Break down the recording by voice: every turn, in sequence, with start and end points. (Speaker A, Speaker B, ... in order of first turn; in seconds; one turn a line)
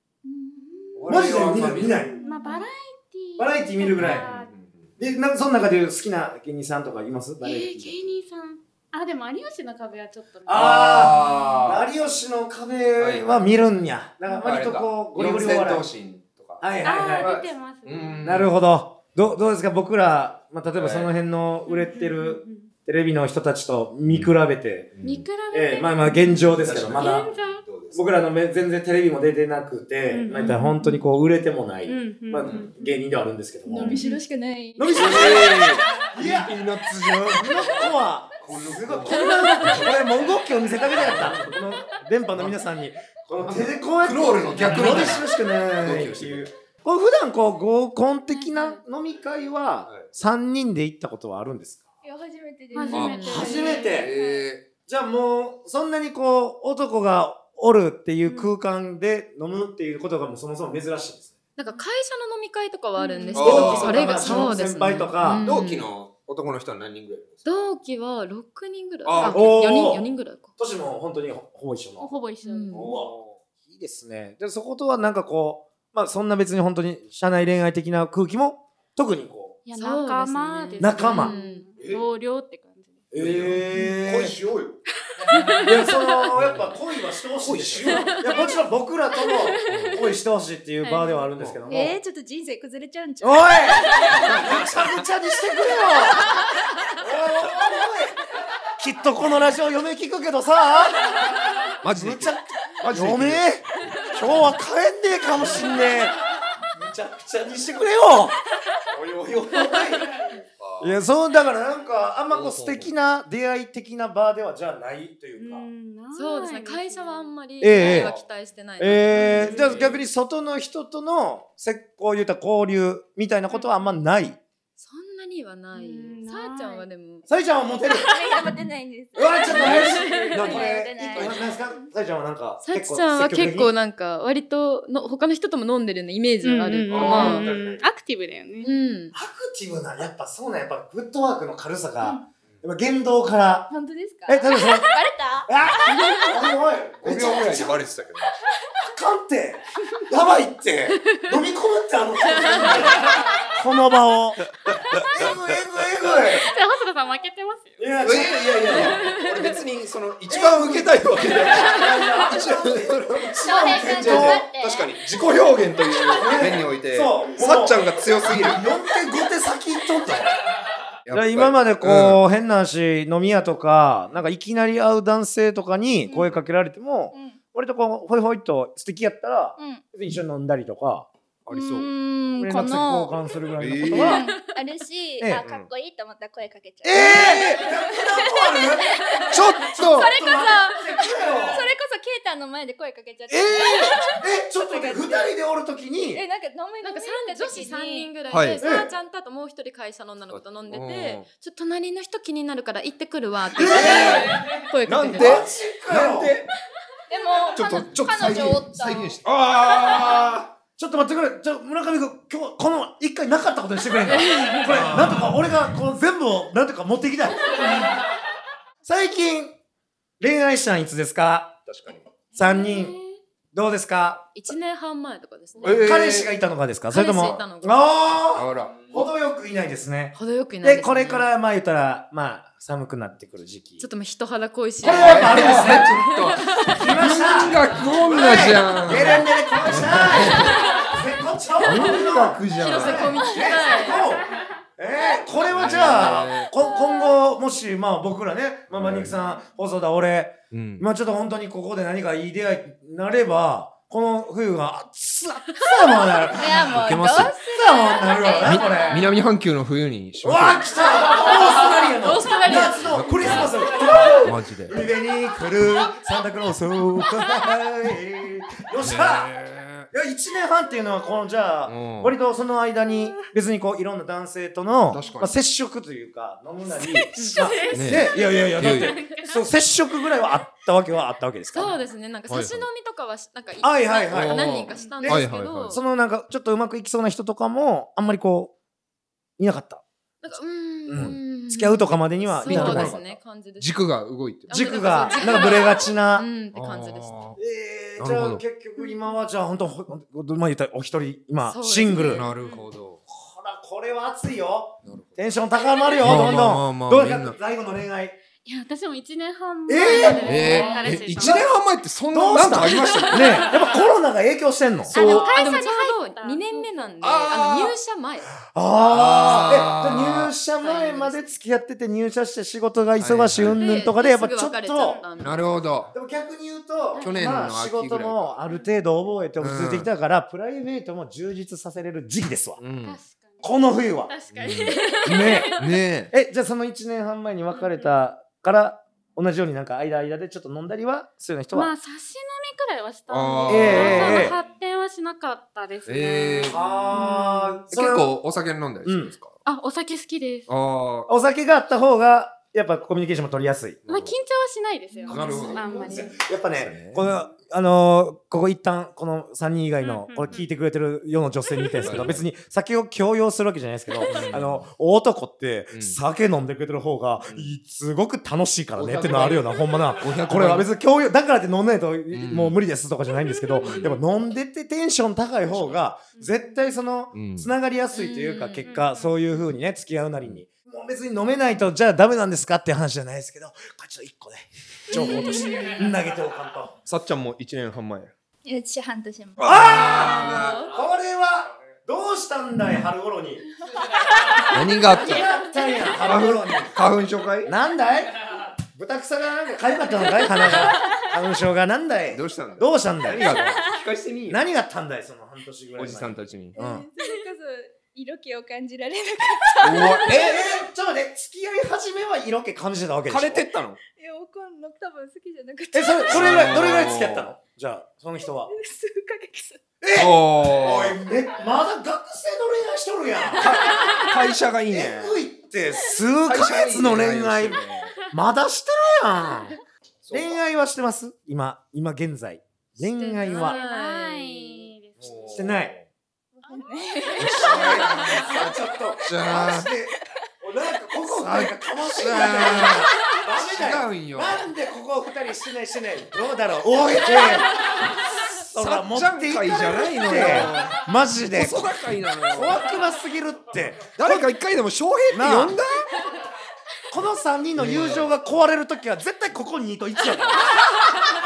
Speaker A: 0.3-1.1
Speaker B: 1.0-2.1
Speaker C: 1.1-2.2
Speaker A: 2.2-2.6
Speaker D: 2.2-4.5
Speaker C: 3.4-4.3
Speaker B: 3.9-4.9
Speaker C: 5.0-8.0
Speaker D: 7.4-11.6
Speaker C: 10.5-15.9
Speaker B: 10.5-11.9
Speaker B: 13.0-13.4
Speaker B: 14.4-18.5
Speaker C: 16.6-17.3
Speaker D: 16.8-18.5
Speaker C: 18.2-24.9
Speaker B: 20.8-21.1
Speaker D: 21.7-22.7
Speaker B: 24.1-24.4
Speaker B: 24.9-25.3
Speaker D: 25.0-27.6
Speaker C: 25.5-27.3
Speaker B: 26.6-28.1
Speaker C: 27.9-34.0
Speaker D: 30.1-30.9
Speaker D: 31.9-32.9
Speaker A: 33.7-35.7
Speaker D: 33.8-34.2
Speaker C: 34.8-51.9
Speaker B: 34.9-37.7
Speaker B: 38.4-39.9
Speaker E: 39.1-39.9
Speaker B: 41.0-41.5
Speaker B: 43.3-46.5
Speaker D: 48.4-48.8
Speaker A: 52.0-54.5
Speaker D: 52.7-54.0
Speaker E: 52.8-53.6
Speaker B: 52.9-54.6
Speaker C: 53.3-54.1
Speaker C: 54.9-61.3
Speaker D: 58.2-58.5
Speaker E: 61.6-65.9
Speaker D: 63.0-63.4
Speaker C: 63.3-65.5
Speaker B: 63.4-64.5
Speaker B: 65.4-67.5
Speaker E: 67.5-70.5
Speaker B: 69.0-70.0
Speaker C: 69.2-72.1
Speaker D: 72.0-72.9
Speaker E: 72.4-72.9
Speaker C: 72.7-73.1
Speaker B: 72.7-73.4
Speaker C: 73.7-79.6
Speaker D: 79.7-83.1
Speaker E: 79.8-81.7
Speaker C: 80.8-81.3
Speaker B: 81.8-82.0
Speaker C: 83.1-84.4
Speaker B: 83.1-84.8
Speaker D: 85.2-85.8
Speaker E: 85.3-86.1
Speaker C: 85.6-92.0
Speaker B: 86.3-86.7
Speaker B: 87.4-88.2
Speaker E: 87.9-88.6
Speaker E: 89.2-89.9
Speaker B: 89.7-90.0
Speaker D: 90.8-91.3
Speaker A: 91.7-94.4
Speaker C: 93.2-96.3
Speaker B: 94.3-94.9
Speaker C: 97.0-98.2
Speaker C: 98.8-106.2
Speaker B: 101.8-103.6
Speaker B: 105.4-105.7
Speaker C: 106.7-110.2
Speaker B: 110.2-111.0
Speaker C: 110.8-115.7
Speaker B: 112.3-112.9
Speaker D: 115.4-117.3
Speaker E: 116.1-119.7
Speaker C: 117.6-118.1
Speaker B: 117.8-118.2
Speaker C: 118.8-124.4
Speaker B: 119.1-120.0
Speaker D: 119.2-119.6
Speaker E: 124.8-127.3
Speaker D: 125.7-126.9
Speaker C: 127.3-128.1
Speaker A: 128.0-131.9
Speaker C: 129.2-133.7
Speaker E: 129.6-130.6
Speaker E: 132.6-137.5
Speaker D: 136.4-138.8
Speaker B: 136.9-137.8
Speaker C: 136.9-137.7
Speaker E: 138.6-139.1
Speaker C: 139.1-143.7
Speaker A: 143.7-146.4
Speaker C: 144.3-144.9
Speaker C: 145.5-147.9
Speaker B: 147.0-148.3
Speaker C: 148.8-156.5
Speaker E: 152.3-152.8
Speaker B: 154.7-155.6
Speaker D: 156.1-157.9
Speaker C: 157.8-159.1
Speaker B: 158.0-168.6
Speaker E: 158.8-159.4
Speaker C: 160.3-164.5
Speaker A: 163.4-164.9
Speaker C: 166.1-170.3
Speaker B: 171.1-172.2
Speaker C: 171.1-181.1
Speaker A: 176.1-176.4
Speaker A: 177.1-177.4
Speaker B: 181.5-181.9
Speaker A: 181.5-183.3
Speaker C: 182.4-184.2
Speaker B: 183.6-184.2
Speaker A: 183.8-195.3
Speaker E: 184.3-184.5
Speaker C: 185.2-185.4
Speaker B: 185.4-185.7
Speaker C: 186.8-191.7
Speaker B: 189.3-190.1
Speaker B: 193.3-193.9
Speaker C: 194.1-196.2
Speaker A: 196.1-198.1
Speaker E: 196.8-205.5
Speaker B: 198.3-198.6
Speaker C: 198.6-198.9
Speaker B: 200.3-201.3
Speaker C: 203.6-204.4
Speaker B: 203.6-206.5
Speaker C: 205.1-206.3
Speaker A: 207.1-209.1
Speaker B: 207.5-210.5
Speaker C: 210.8-217.9
Speaker E: 214.1-214.7
Speaker B: 214.6-215.4
Speaker C: 218.8-219.6
Speaker C: 220.2-221.6
Speaker B: 221.7-222.1
Speaker C: 222.3-222.9
Speaker E: 222.4-223.1
Speaker D: 222.4-222.9
Speaker C: 223.5-224.3
Speaker E: 224.3-226.0
Speaker B: 225.6-226.3
Speaker C: 225.8-233.9
Speaker E: 226.9-227.9
Speaker B: 228.3-229.1
Speaker E: 230.2-231.3
Speaker E: 233.8-236.9
Speaker C: 234.8-236.0
Speaker B: 234.9-240.6
Speaker C: 236.7-259.1
Speaker E: 240.3-240.9
Speaker D: 240.5-240.9
Speaker B: 241.6-243.2
Speaker E: 242.5-244.2
Speaker A: 242.9-243.8
Speaker A: 245.0-247.2
Speaker B: 245.5-246.5
Speaker B: 248.7-249.2
Speaker B: 250.5-250.9
Speaker A: 256.3-259.1
Speaker B: 256.5-257.3
Speaker B: 258.4-260.7
Speaker C: 260.2-269.3
Speaker D: 261.1-262.9
Speaker E: 262.0-262.8
Speaker B: 262.8-263.5
Speaker B: 264.2-264.8
Speaker B: 268.8-269.9
Speaker C: 269.9-281.7
Speaker B: 271.7-272.1
Speaker B: 274.9-275.3
Speaker E: 277.2-277.6
Speaker D: 277.2-279.4
Speaker B: 277.7-279.0
Speaker E: 281.5-285.8
Speaker B: 282.3-282.7
Speaker C: 283.6-284.4
Speaker B: 284.1-285.8
Speaker D: 284.8-285.0
Speaker C: 285.0-288.5
Speaker C: 289.4-289.8
Speaker E: 290.2-293.8
Speaker C: 290.9-293.2
Speaker B: 292.5-294.7
Speaker E: 294.5-297.2
Speaker C: 294.5-296.3
Speaker B: 296.5-297.4
Speaker C: 297.4-302.3
Speaker B: 298.0-298.4
Speaker E: 301.5-302.3
Speaker B: 302.1-303.0
Speaker D: 302.4-302.7
Speaker C: 303.1-308.2
Speaker B: 304.9-305.2
Speaker B: 306.0-307.4
Speaker D: 308.4-311.5
Speaker C: 309.7-311.5
Speaker E: 309.9-311.0
Speaker B: 309.9-313.6
Speaker C: 312.1-315.3
Speaker D: 312.8-313.8
Speaker D: 314.9-316.9
Speaker B: 314.9-315.3
Speaker E: 314.9-318.3
Speaker B: 317.0-317.8
Speaker C: 318.5-325.0
Speaker B: 318.9-320.3
Speaker E: 320.6-321.3
Speaker B: 323.0-323.6
Speaker E: 323.5-325.5
Speaker B: 325.2-325.9
Speaker C: 325.9-332.6
Speaker B: 327.0-328.3
Speaker B: 329.4-329.9
Speaker B: 332.6-333.0
Speaker D: 332.8-335.7
Speaker C: 333.4-334.1
Speaker B: 334.3-334.8
Speaker E: 334.7-335.4
Speaker C: 335.1-335.6
Speaker B: 335.6-336.1
Speaker C: 336.1-341.7
Speaker D: 337.5-337.9
Speaker D: 341.5-347.6
Speaker B: 343.1-344.4
Speaker C: 343.5-344.4
Speaker B: 345.9-346.6
Speaker C: 346.5-348.1
Speaker B: 347.7-349.4
Speaker C: 348.8-349.1
Speaker D: 349.5-350.5
Speaker B: 350.5-351.1
Speaker C: 351.1-353.8
Speaker B: 353.9-354.2
Speaker D: 353.9-356.2
Speaker C: 355.1-386.7
Speaker B: 355.1-357.1
Speaker D: 359.8-360.4
Speaker D: 361.6-361.9
Speaker B: 361.8-362.2
Speaker D: 364.0-364.3
Speaker B: 364.1-364.7
Speaker B: 365.7-366.0
Speaker B: 367.3-367.5
Speaker B: 368.8-370.7
Speaker B: 372.1-372.6
Speaker D: 373.3-374.0
Speaker B: 373.6-373.9
Speaker D: 376.1-376.6
Speaker B: 377.1-377.5
Speaker E: 377.9-378.8
Speaker D: 378.6-379.4
Speaker E: 384.9-385.8
Speaker A: 385.0-385.7
Speaker D: 385.1-385.8
Speaker B: 386.9-388.1
Speaker A: 388.4-389.5
Speaker B: 389.4-390.7
Speaker C: 389.4-393.4
Speaker E: 389.7-390.8
Speaker B: 394.5-395.3
Speaker C: 394.8-396.8
Speaker B: 396.0-397.5
Speaker C: 397.4-403.6
Speaker B: 402.1-404.4
Speaker C: 404.3-406.9
Speaker B: 405.8-406.6
Speaker A: 406.6-410.5
Speaker B: 409.6-410.6
Speaker C: 410.0-413.4
Speaker B: 413.1-413.8
Speaker A: 413.9-416.6
Speaker C: 415.7-418.5
Speaker B: 416.1-417.3
Speaker A: 418.4-419.6
Speaker C: 419.8-424.0
Speaker B: 419.9-421.0
Speaker B: 423.4-425.2
Speaker C: 424.7-429.6
Speaker B: 426.2-427.9
Speaker B: 430.0-430.4
Speaker C: 430.1-433.6
Speaker E: 432.9-434.7
Speaker D: 433.2-435.4
Speaker B: 435.0-435.9
Speaker C: 435.3-435.7
Speaker D: 436.4-438.3
Speaker A: 436.5-438.4
Speaker B: 437.2-438.4
Speaker C: 437.4-451.8
Speaker B: 439.1-439.7
Speaker B: 441.1-444.5
Speaker B: 448.6-450.8
Speaker B: 451.3-452.7
Speaker C: 452.3-454.3
Speaker B: 454.0-456.0
Speaker C: 455.1-455.6
Speaker C: 456.9-460.8
Speaker B: 457.6-458.1